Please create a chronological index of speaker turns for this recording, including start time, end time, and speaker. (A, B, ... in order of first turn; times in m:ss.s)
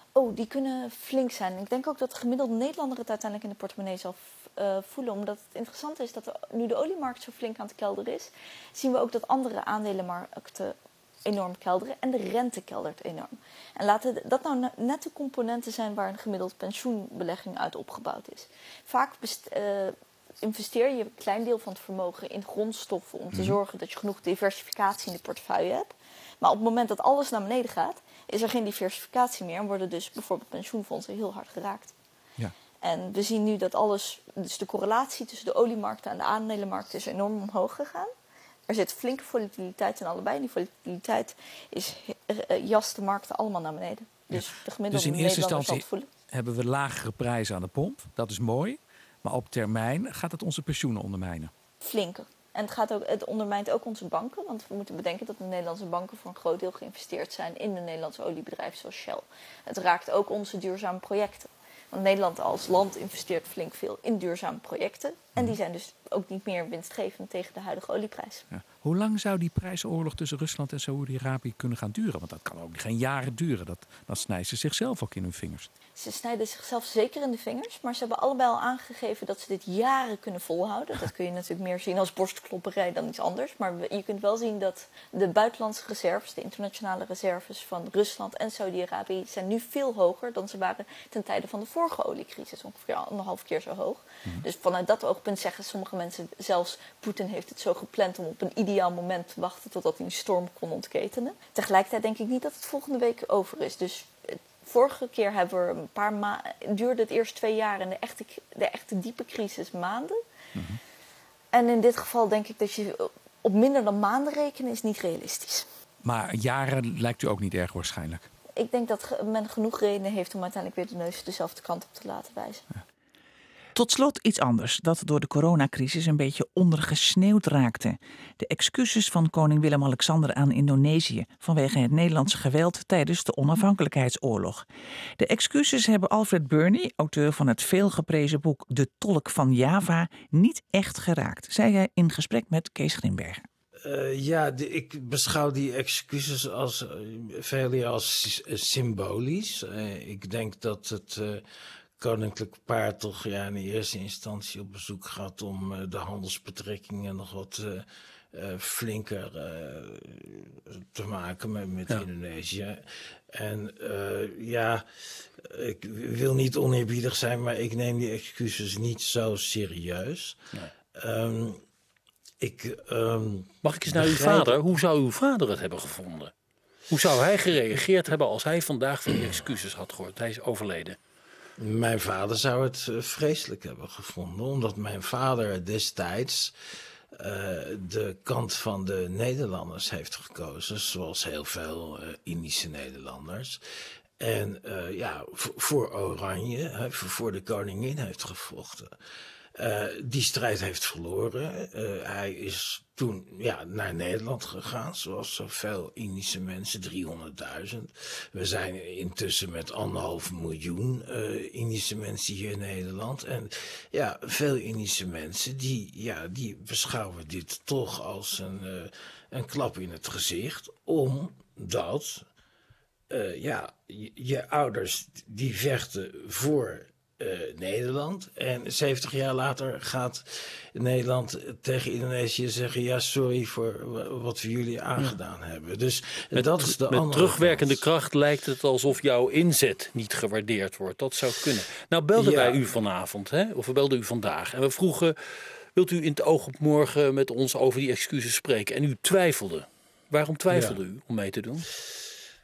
0:00.1-0:31.9 A
0:32.8-0:38.1 A
0:38.7-0:46.1 A
0:44.3-0:51.5 B
0:51.8-1:08.4 A
1:08.5-1:15.7 B
1:16.0-1:50.2 A
1:51.5-1:55.7 A
1:56.0-1:58.3 B
1:58.6-2:02.6 A
2:03.7-2:14.6 C
2:15.2-2:23.4 C
2:23.8-2:31.4 D
2:32.0-2:44.8 D
2:45.4-2:50.4 D
2:51.0-2:51.6 D
2:52.4-2:54.6 D
2:53.6-2:56.3 E
2:56.9-3:01.0 E
3:01.6-3:06.5 D
3:07.2-3:13.6 D
3:14.2-3:18.9 D
3:19.6-3:42.2 D
3:43.1-3:57.8 D
3:56.3-4:11.6 E
4:02.1-4:02.6 D
4:10.5-4:10.8 D